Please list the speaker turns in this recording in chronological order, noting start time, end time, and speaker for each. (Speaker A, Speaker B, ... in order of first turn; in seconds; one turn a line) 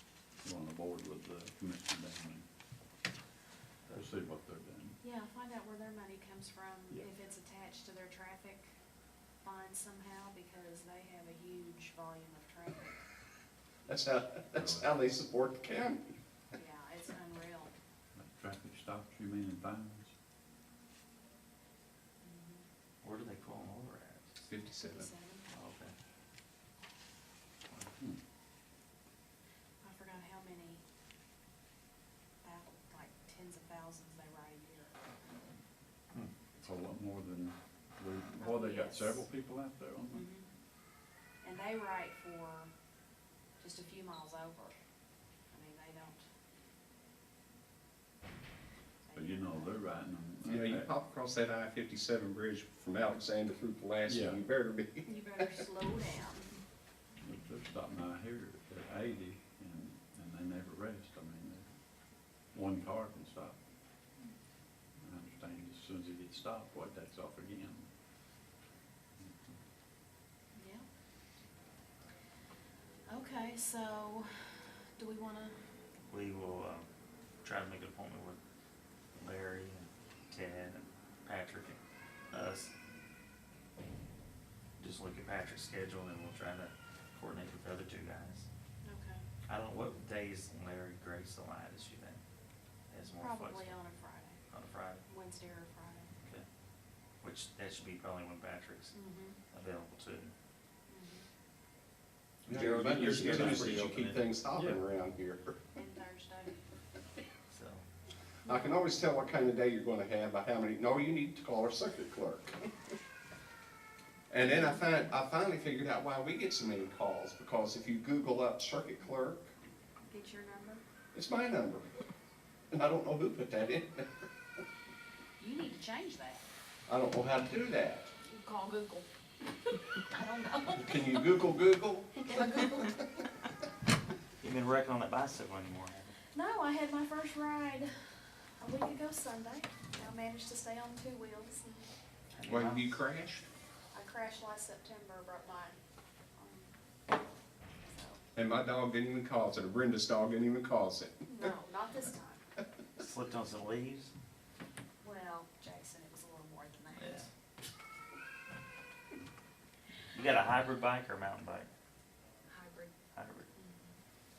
Speaker A: 0.4-2.4
Speaker A: 3.9-5.0
Speaker B: 5.0-8.7
Speaker B: 9.4-13.0
Speaker C: 13.9-16.1
Speaker A: 14.6-14.9
Speaker B: 16.5-17.7
Speaker A: 18.2-20.1
Speaker B: 22.2-22.6
Speaker D: 23.0-24.4
Speaker C: 24.5-25.1
Speaker B: 24.7-25.5
Speaker D: 25.5-25.9
Speaker B: 29.8-30.8
Speaker B: 32.4-35.0
Speaker A: 36.6-40.3
Speaker B: 38.4-39.2
Speaker B: 40.1-40.5
Speaker B: 41.4-42.7
Speaker B: 43.6-44.8
Speaker B: 45.5-46.2
Speaker B: 49.0-49.9
Speaker A: 49.1-50.9
Speaker C: 50.5-55.5
Speaker A: 54.1-54.4
Speaker B: 55.1-56.5
Speaker A: 57.2-61.6
Speaker A: 62.5-63.6
Speaker A: 65.0-67.9
Speaker B: 70.5-70.8
Speaker B: 73.1-75.6
Speaker D: 76.1-76.9
Speaker D: 77.4-78.4
Speaker D: 79.2-81.8
Speaker D: 82.3-82.7
Speaker D: 84.8-88.5
Speaker B: 88.8-89.2
Speaker D: 89.5-92.2
Speaker D: 92.9-93.8
Speaker B: 93.1-94.4
Speaker D: 94.5-95.0
Speaker B: 95.1-96.1
Speaker D: 97.2-99.0
Speaker B: 98.9-99.4
Speaker D: 99.5-100.3
Speaker B: 100.9-101.3
Speaker C: 102.5-105.6
Speaker D: 102.5-104.3
Speaker A: 102.6-103.8
Speaker B: 105.8-106.5
Speaker D: 107.5-107.8
Speaker B: 108.5-108.9
Speaker C: 108.5-112.7
Speaker C: 114.3-119.5
Speaker B: 114.4-115.0
Speaker B: 120.1-120.8
Speaker C: 121.1-121.9
Speaker C: 122.7-124.1
Speaker B: 125.4-126.4
Speaker C: 126.9-128.1
Speaker B: 128.3-129.1
Speaker B: 129.7-131.3
Speaker C: 130.7-132.7
Speaker B: 132.2-133.0
Speaker D: 134.4-136.1
Speaker B: 136.3-137.9
Speaker B: 138.6-141.9
Speaker D: 142.3-143.0
Speaker C: 142.5-143.4
Speaker B: 143.9-145.8
Speaker B: 146.4-146.7
Speaker B: 147.8-148.2
Speaker C: 148.3-151.2
Speaker B: 151.3-152.4
Speaker D: 153.0-154.1
Speaker B: 155.0-157.3
Speaker D: 157.0-157.3
Speaker D: 160.1-161.7
Speaker B: 162.5-162.9
Speaker D: 163.1-163.5
Speaker B: 163.6-163.9